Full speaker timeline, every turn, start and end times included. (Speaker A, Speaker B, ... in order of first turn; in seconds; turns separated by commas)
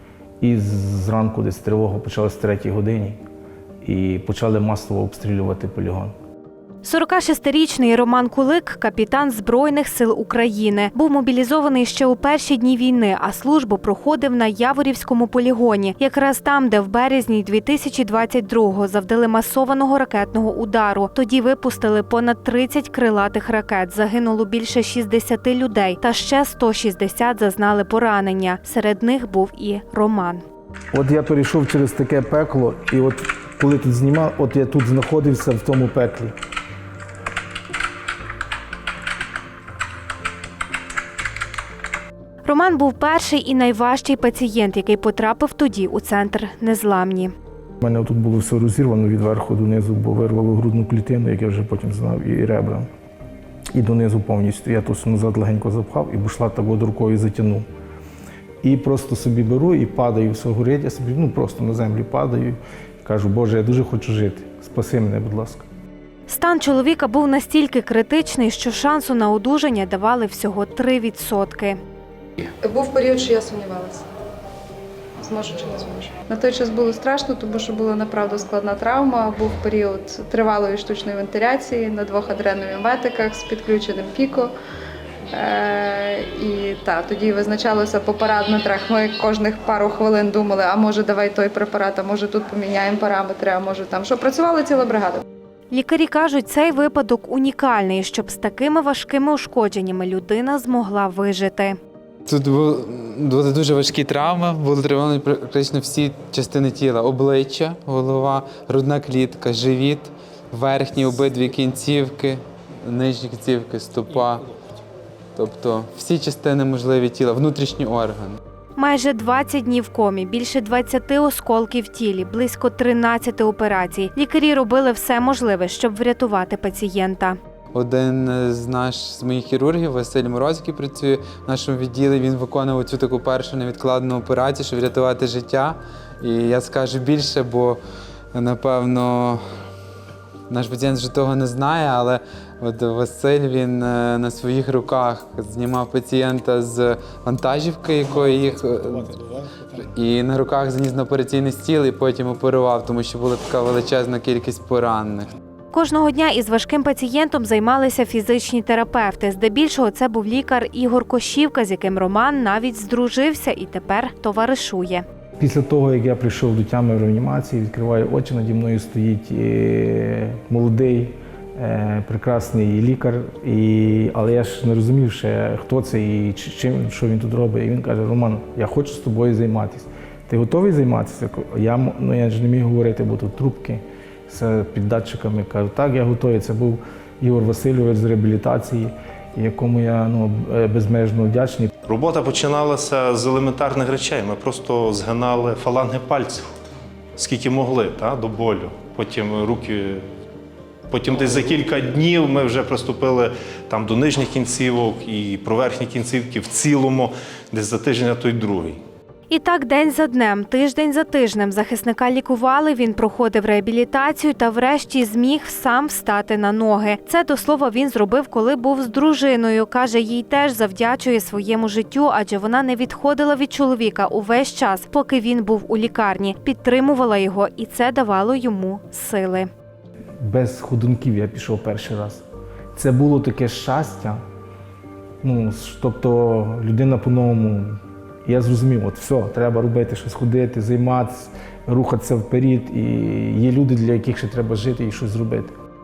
Speaker A: 0.4-3.2, Speaker A: 3.8-6.1, Speaker B: 6.8-30.4, Speaker A: 30.9-36.3, Speaker B: 42.5-47.3, Speaker A: 47.8-52.9, Speaker A: 53.7-57.7, Speaker A: 58.6-65.7, Speaker B: 66.3-71.8, Speaker C: 72.6-74.0, Speaker C: 75.2-84.5, Speaker C: 85.3-95.2, Speaker B: 95.7-101.8, Speaker D: 102.3-114.5, Speaker D: 115.4-118.4, Speaker B: 118.8-127.4, Speaker D: 127.7-137.8, Speaker D: 138.3-139.4, Speaker D: 140.5-155.3, Speaker B: 155.7-165.1, Speaker A: 165.4-191.7, Speaker E: 191.9-196.5, Speaker E: 197.2-200.0, Speaker E: 200.9-208.8, Speaker B: 209.3-229.5, Speaker A: 230.2-234.2, Speaker A: 235.2-245.5